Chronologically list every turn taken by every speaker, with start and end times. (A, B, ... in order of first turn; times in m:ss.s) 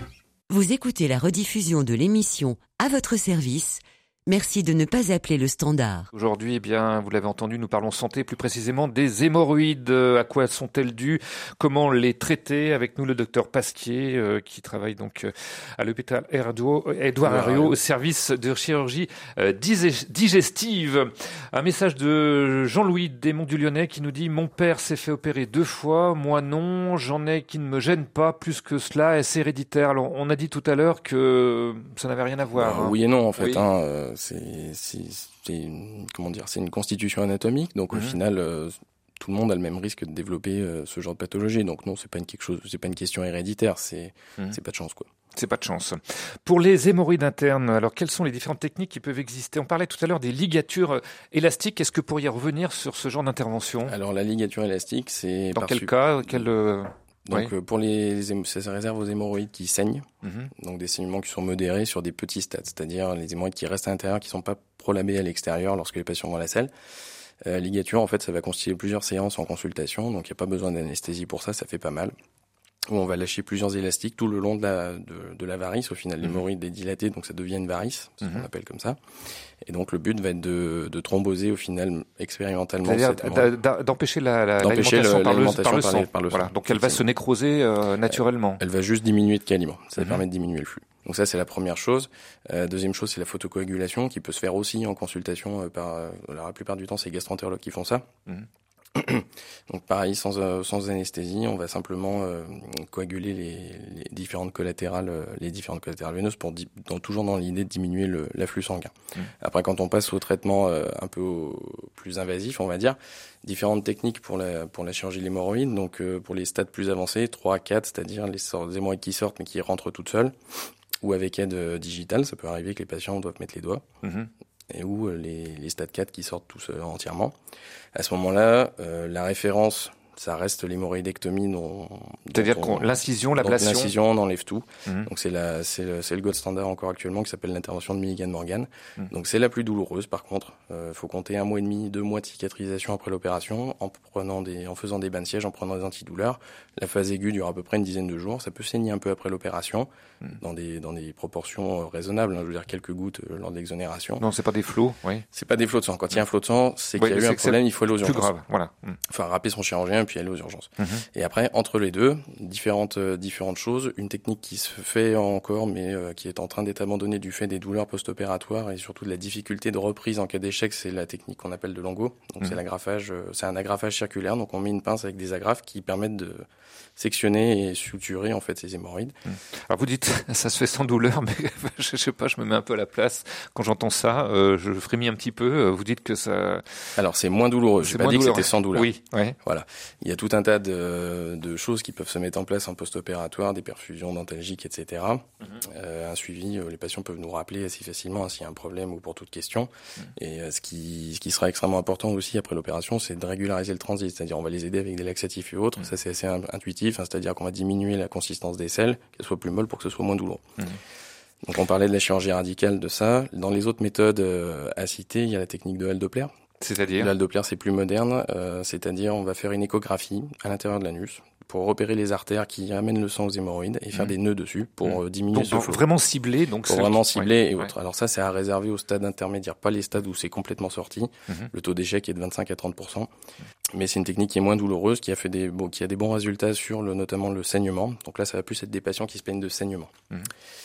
0:00.5-0:06.1 A
0:06.1-0:33.6 B
0:17.2-0:17.8 C
0:32.5-0:45.1 C
0:45.4-0:53.9 B
0:53.8-0:56.4 C
0:55.5-0:57.5 B
0:57.2-1:06.7 C
1:00.2-1:00.5 B
1:07.4-1:12.1 C
1:12.9-1:19.0 C
1:19.6-1:23.5 C
1:22.8-1:28.6 B
1:24.6-1:27.0 C
1:28.1-1:38.1 C
1:38.9-2:03.8 C
2:04.0-2:04.3 B
2:04.7-2:07.4 C
2:07.9-2:34.2 C
2:12.3-2:13.9 B
2:34.2-2:35.2 B
2:35.3-2:38.3 C
2:37.0-2:39.0 B
2:39.1-2:59.1 C
2:40.8-2:41.0 B
2:59.3-3:06.6 B
3:07.0-3:30.4 C
3:07.8-3:09.4 B
3:31.4-3:36.3 C
3:36.6-3:37.1 B
3:36.9-3:45.8 C
3:44.8-3:47.7 B
3:46.6-3:53.1 C
3:53.7-3:59.9 C